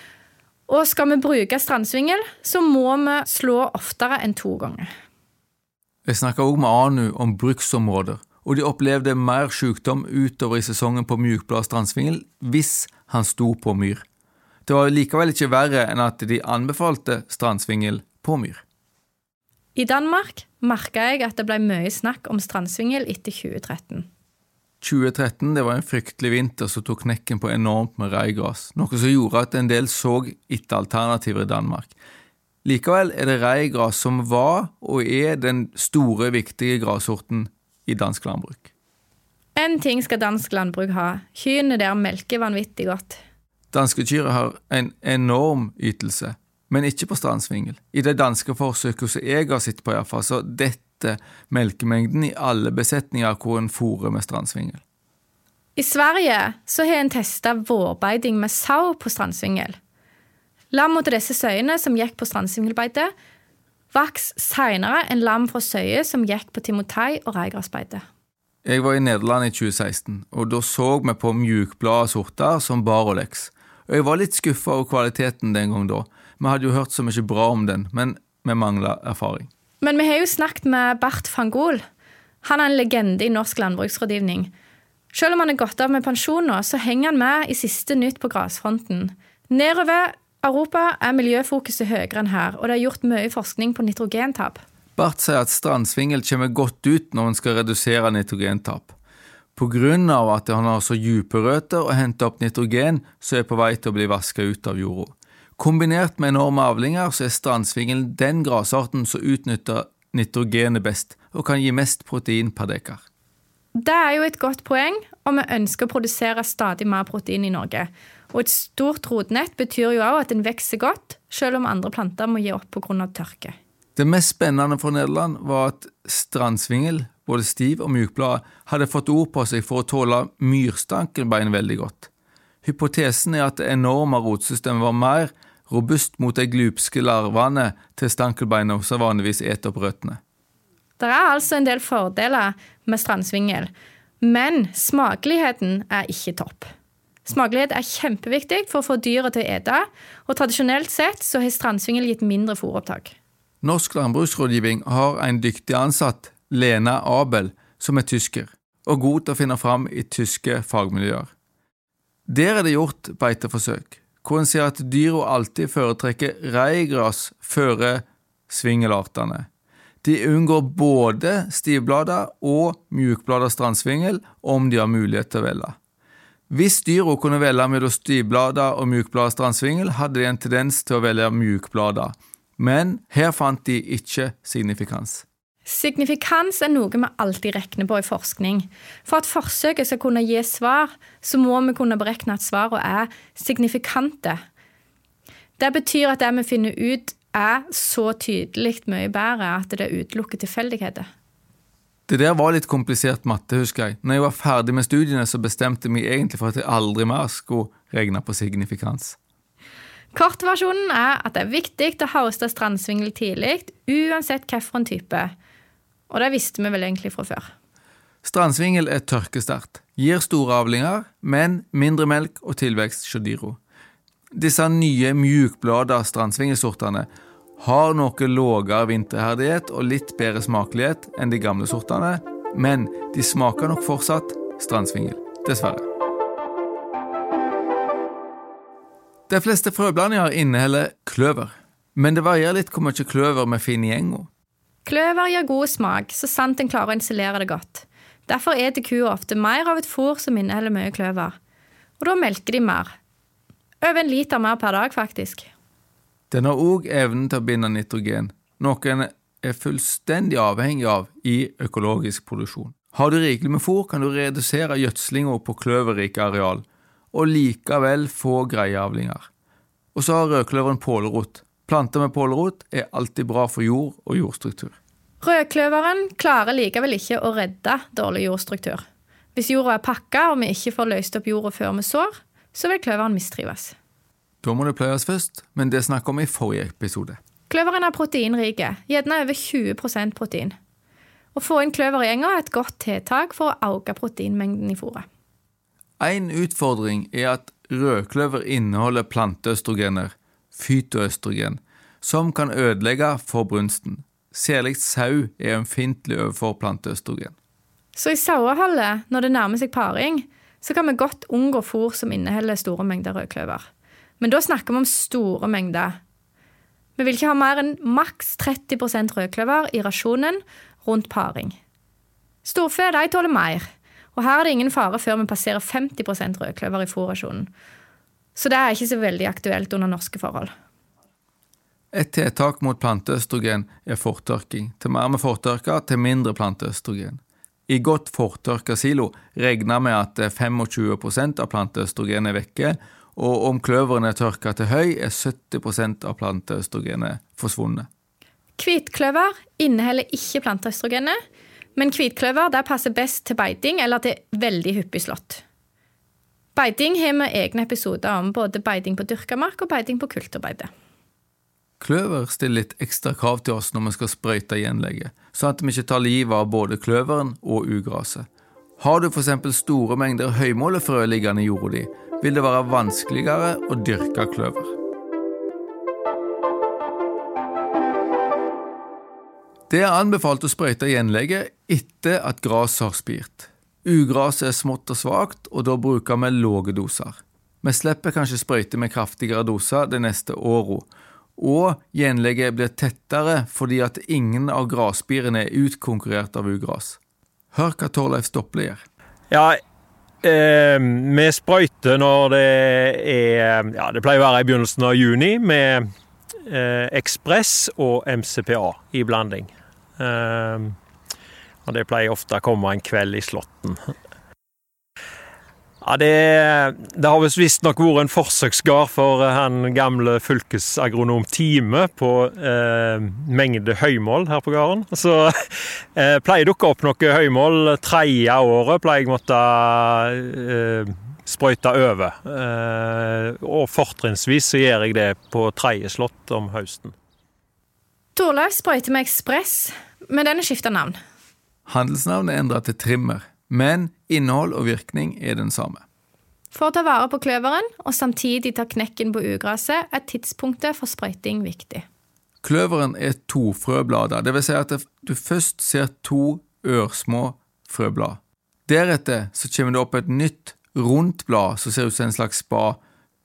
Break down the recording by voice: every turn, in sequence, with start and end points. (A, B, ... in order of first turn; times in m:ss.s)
0:00.7-0:04.9 A
0:06.0-0:14.0 B
0:14.6-0:18.6 B
0:19.8-0:24.1 A
0:24.8-0:31.9 B
0:32.6-0:38.7 B
0:39.6-0:43.2 A
0:43.7-0:54.8 B
0:55.8-0:59.8 A
1:00.7-1:03.1 A
1:03.9-1:08.0 A
1:08.6-1:19.5 B
1:19.8-1:21.8 A
1:22.4-1:24.5 A
1:25.1-1:34.6 A
1:35.0-1:38.9 B
1:39.6-1:53.0 B
1:53.8-2:03.5 A
2:04.0-2:12.1 B
2:12.6-2:20.2 B
2:21.0-2:26.7 A
2:27.2-2:33.1 A
2:33.6-2:41.3 B
2:42.3-2:49.5 B
2:50.0-2:55.8 B
2:56.5-3:05.2 B
3:05.6-3:14.4 A
3:15.6-3:21.1 A
3:22.1-3:29.2 B
3:30.1-3:35.3 A
3:36.1-3:37.5 A
3:38.2-3:43.6 B
3:44.3-3:47.1 B
3:47.6-3:55.8 B
3:59.3-4:04.3 B
4:04.8-4:11.3 A
4:12.0-4:12.9 A
4:13.8-4:15.5 A
4:16.3-4:29.3 B
4:29.9-4:34.8 B
4:35.2-4:38.8 A
4:39.3-4:43.7 A
4:44.4-4:47.2 B
4:47.5-4:50.6 A
4:51.3-4:55.0 A
4:56.0-5:07.3 B
5:08.0-5:13.6 A
5:14.2-5:16.0 A
5:17.0-5:21.6 A
5:22.4-5:23.6 A
5:24.1-5:27.5 A
5:28.4-5:30.5 A
5:31.9-5:47.9 B
5:48.6-5:51.2 A
5:51.8-5:55.4 A
5:56.5-6:00.7 A
6:01.8-6:08.3 B
6:08.8-6:14.7 B
6:19.7-6:37.0 B
6:37.5-6:38.8 B
6:39.3-6:39.6 C
6:40.2-6:45.9 C
6:46.4-6:50.8 C
6:51.6-6:53.9 C
6:55.8-7:16.9 C
7:18.2-7:21.0 A
7:21.7-7:25.8 B
7:26.5-7:31.8 A
7:32.4-7:42.8 B